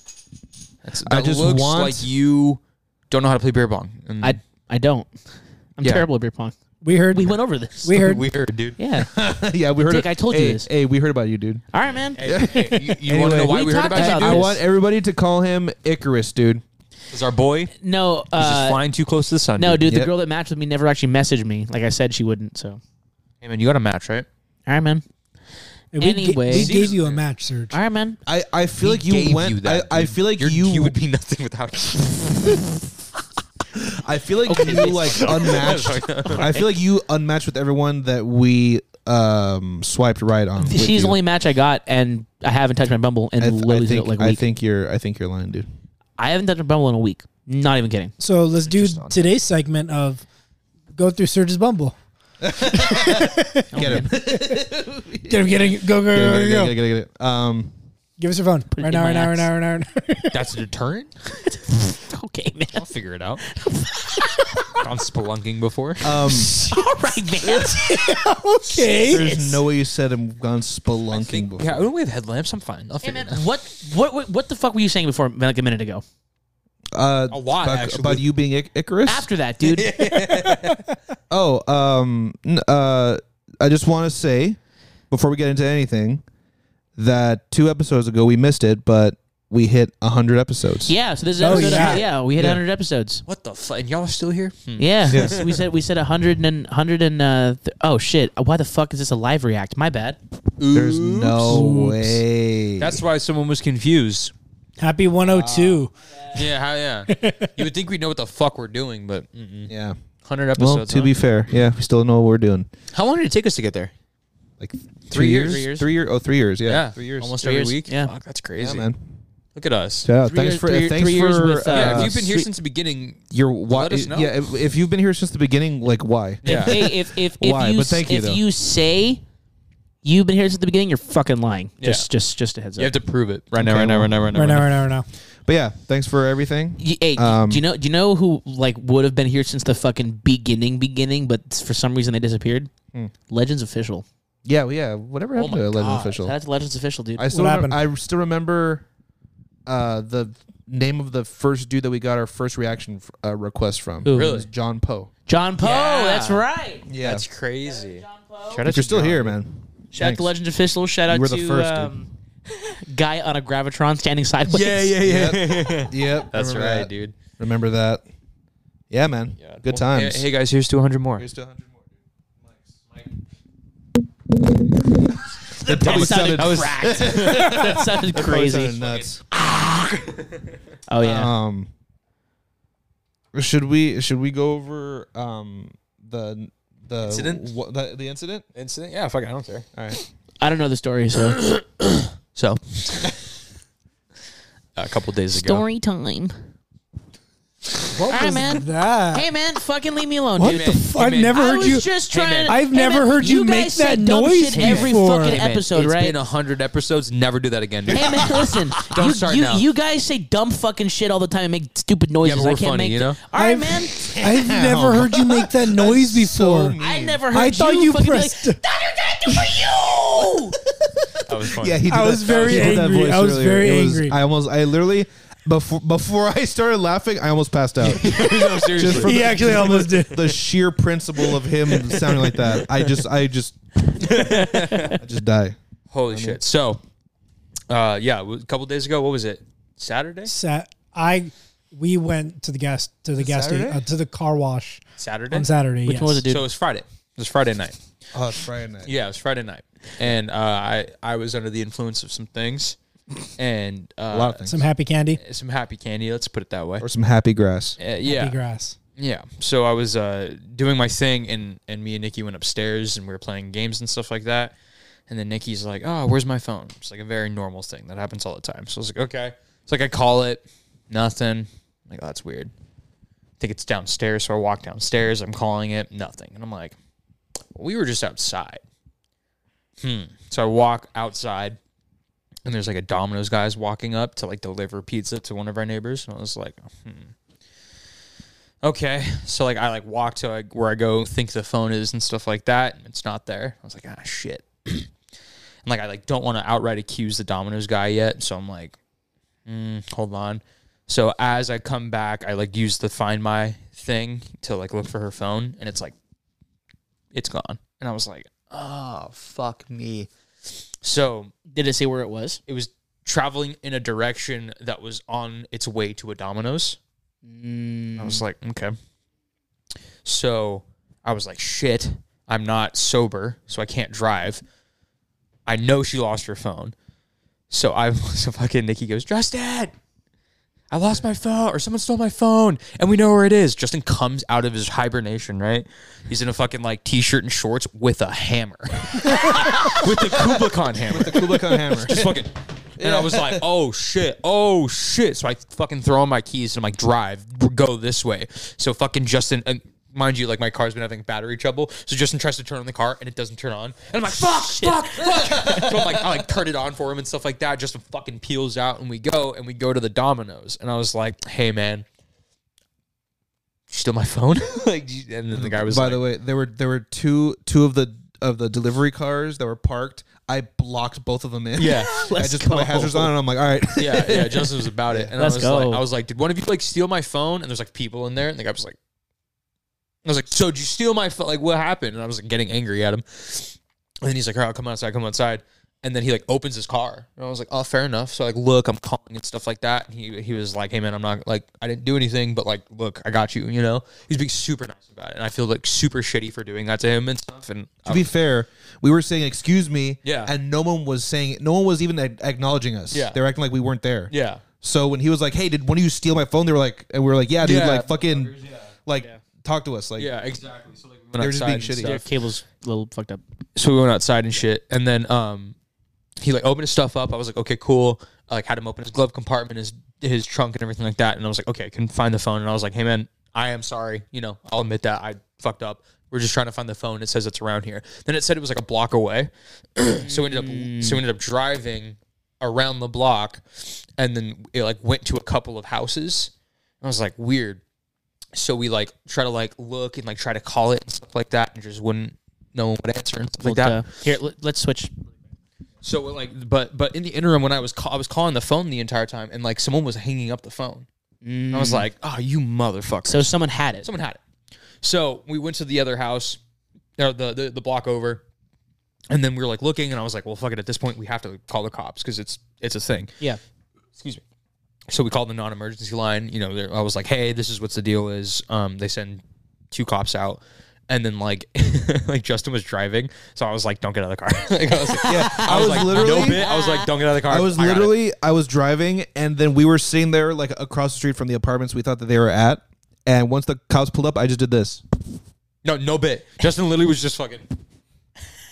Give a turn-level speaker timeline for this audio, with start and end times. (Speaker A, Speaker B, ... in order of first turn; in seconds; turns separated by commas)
Speaker A: 0.8-4.4, Speaker B: 1.0-2.1, Speaker C: 4.2-5.1, Speaker C: 5.8-6.5, Speaker B: 5.8-6.1, Speaker D: 6.8-8.2, Speaker C: 7.1-8.0, Speaker A: 7.9-8.8, Speaker C: 8.8-9.1, Speaker B: 9.1-11.6, Speaker C: 9.9-10.7, Speaker C: 11.7-14.6, Speaker A: 12.2-14.6, Speaker B: 12.2-16.6, Speaker A: 17.1-17.7, Speaker C: 17.8-18.8, Speaker A: 18.3-19.9, Speaker C: 19.6-22.8, Speaker B: 19.8-20.1, Speaker A: 23.4-24.3, Speaker C: 24.7-25.0, Speaker D: 25.9-27.8, Speaker C: 26.0-26.8, Speaker A: 26.5-27.2, Speaker C: 27.7-28.2, Speaker B: 28.2-31.0, Speaker A: 28.8-32.7, Speaker B: 33.8-41.2, Speaker C: 34.5-36.7, Speaker A: 34.6-36.5, Speaker C: 40.6-44.4, Speaker B: 43.4-45.7, Speaker C: 46.2-48.1, Speaker D: 48.2-50.2, Speaker A: 48.6-49.3, Speaker D: 50.9-52.0, Speaker B: 52.4-57.7, Speaker D: 52.8-54.6, Speaker C: 53.7-54.1, Speaker D: 55.2-56.7, Speaker D: 58.2-60.4, Speaker C: 58.7-59.5, Speaker A: 60.3-61.1, Speaker C: 61.3-62.9, Speaker A: 62.7-63.4, Speaker C: 63.4-64.8, Speaker A: 64.8-66.3, Speaker B: 66.0-66.5, Speaker C: 66.2-68.1, Speaker D: 67.6-69.4, Speaker B: 68.9-71.8, Speaker C: 69.0-69.5, Speaker A: 71.1-73.4, Speaker C: 73.0-76.0, Speaker B: 76.9-79.3, Speaker A: 77.3-78.2, Speaker C: 79.0-80.0, Speaker A: 79.6-80.8, Speaker B: 81.3-84.6, Speaker B: 85.1-86.2, Speaker B: 87.0-90.9, Speaker C: 90.8-93.2, Speaker D: 91.4-92.0, Speaker B: 91.5-92.6, Speaker A: 91.7-92.0, Speaker A: 93.3-95.6, Speaker C: 94.8-100.2, Speaker B: 95.1-95.4, Speaker A: 100.6-101.7, Speaker B: 100.7-103.0, Speaker D: 101.5-102.1, Speaker A: 102.8-104.3, Speaker D: 104.8-105.9, Speaker B: 105.2-105.8, Speaker A: 106.3-109.7, Speaker D: 107.1-107.5, Speaker B: 109.7-110.0, Speaker A: 110.2-111.1, Speaker B: 110.6-112.7, Speaker A: 112.9-113.9, Speaker B: 114.6-117.4, Speaker A: 115.1-115.6, Speaker C: 115.1-115.9, Speaker A: 116.6-118.9, Speaker C: 117.4-118.1, Speaker B: 118.6-119.0, Speaker A: 119.5-120.1, Speaker B: 120.0-122.1, Speaker C: 120.2-122.5, Speaker A: 121.7-124.3, Speaker B: 123.3-128.4, Speaker A: 126.4-126.8, Speaker C: 126.4-129.2, Speaker C: 130.0-132.9, Speaker A: 131.8-132.1, Speaker A: 132.8-134.8, Speaker B: 133.6-134.2, Speaker D: 134.3-135.1, Speaker B: 135.4-137.6, Speaker C: 136.8-142.7, Speaker C: 143.3-144.0, Speaker B: 144.4-146.3, Speaker A: 145.3-145.8, Speaker C: 145.7-147.2, Speaker B: 147.2-148.8, Speaker D: 147.3-147.8, Speaker B: 149.7-155.1, Speaker C: 154.0-154.4, Speaker A: 154.1-154.5, Speaker C: 155.3-156.8, Speaker A: 155.6-156.4, Speaker B: 156.8-157.2, Speaker A: 157.0-159.4, Speaker C: 157.7-158.6, Speaker B: 158.7-160.3, Speaker C: 159.9-164.9, Speaker B: 161.1-161.9, Speaker A: 164.5-167.2, Speaker B: 165.0-168.0, Speaker B: 168.9-170.2, Speaker A: 169.4-171.2, Speaker B: 171.2-171.9, Speaker C: 175.6-178.8, Speaker B: 175.6-179.2, Speaker A: 175.7-177.8, Speaker A: 178.7-180.5, Speaker C: 180.9-181.3, Speaker B: 181.0-181.7, Speaker B: 183.3-188.4, Speaker A: 187.0-187.4, Speaker A: 188.5-189.7, Speaker B: 189.7-190.0, Speaker C: 190.4-191.4, Speaker A: 191.3-193.2, Speaker A: 194.8-195.6, Speaker C: 195.3-196.3, Speaker D: 197.9-199.3, Speaker C: 198.1-200.7, Speaker D: 200.4-205.4, Speaker A: 200.4-201.4, Speaker C: 201.3-206.2, Speaker A: 202.1-202.5, Speaker A: 204.5-209.6, Speaker C: 207.9-214.1, Speaker B: 208.0-208.3, Speaker A: 212.2-213.2, Speaker D: 213.3-216.8, Speaker B: 214.1-217.2, Speaker C: 216.8-220.6, Speaker D: 217.3-218.6, Speaker B: 221.0-233.6, Speaker A: 221.2-222.8, Speaker D: 221.9-224.2, Speaker A: 227.8-229.8, Speaker D: 228.9-230.4, Speaker A: 231.7-233.0, Speaker A: 233.9-235.0, Speaker B: 234.9-235.6, Speaker A: 235.9-236.8, Speaker B: 236.1-236.4, Speaker A: 237.7-240.3, Speaker D: 240.3-246.3, Speaker B: 243.2-243.8, Speaker A: 245.0-245.5, Speaker C: 245.8-246.4, Speaker A: 246.2-247.8, Speaker B: 248.1-248.9, Speaker A: 248.8-252.8, Speaker A: 253.4-254.5, Speaker B: 254.1-254.6, Speaker D: 254.5-255.2, Speaker A: 255.2-256.9, Speaker B: 256.8-257.8, Speaker A: 257.8-258.4, Speaker D: 258.0-258.8, Speaker A: 259.0-264.5, Speaker A: 265.1-272.5, Speaker A: 273.4-276.8, Speaker A: 277.5-278.6, Speaker A: 279.8-281.6, Speaker A: 282.4-287.1, Speaker A: 288.6-294.9, Speaker A: 295.6-298.8, Speaker A: 299.4-305.9, Speaker A: 307.1-310.1, Speaker A: 310.8-311.3, Speaker C: 311.5-312.4, Speaker A: 312.5-316.8, Speaker C: 317.2-318.2, Speaker A: 318.0-318.8, Speaker A: 320.0-324.4, Speaker A: 325.4-326.7, Speaker A: 327.5-329.7, Speaker A: 330.7-361.8, Speaker B: 339.6-342.2, Speaker B: 342.8-343.4, Speaker C: 354.1-355.7, Speaker A: 363.7-366.0, Speaker B: 365.3-375.1, Speaker A: 371.6-372.1, Speaker C: 371.6-373.1, Speaker A: 373.8-378.8, Speaker C: 375.2-375.8, Speaker A: 380.0-398.1, Speaker B: 397.9-408.3, Speaker A: 400.0-400.3, Speaker A: 402.9-403.2, Speaker A: 404.1-404.4, Speaker A: 407.4-409.1, Speaker B: 408.9-410.1, Speaker A: 410.0-412.0, Speaker B: 411.2-411.9, Speaker C: 411.8-413.2, Speaker A: 413.6-415.6, Speaker A: 416.2-436.3, Speaker C: 429.9-431.0, Speaker A: 436.8-437.6, Speaker A: 438.3-443.9, Speaker C: 443.4-444.9, Speaker A: 445.8-450.9, Speaker C: 451.2-451.9, Speaker A: 451.5-453.3, Speaker C: 453.1-453.9, Speaker A: 453.8-454.2, Speaker A: 454.8-456.4, Speaker A: 457.0-458.2, Speaker A: 459.1-463.1, Speaker A: 463.9-464.2, Speaker A: 464.9-477.9, Speaker C: 474.9-476.9, Speaker B: 475.1-476.5, Speaker B: 477.2-484.8, Speaker A: 485.6-487.5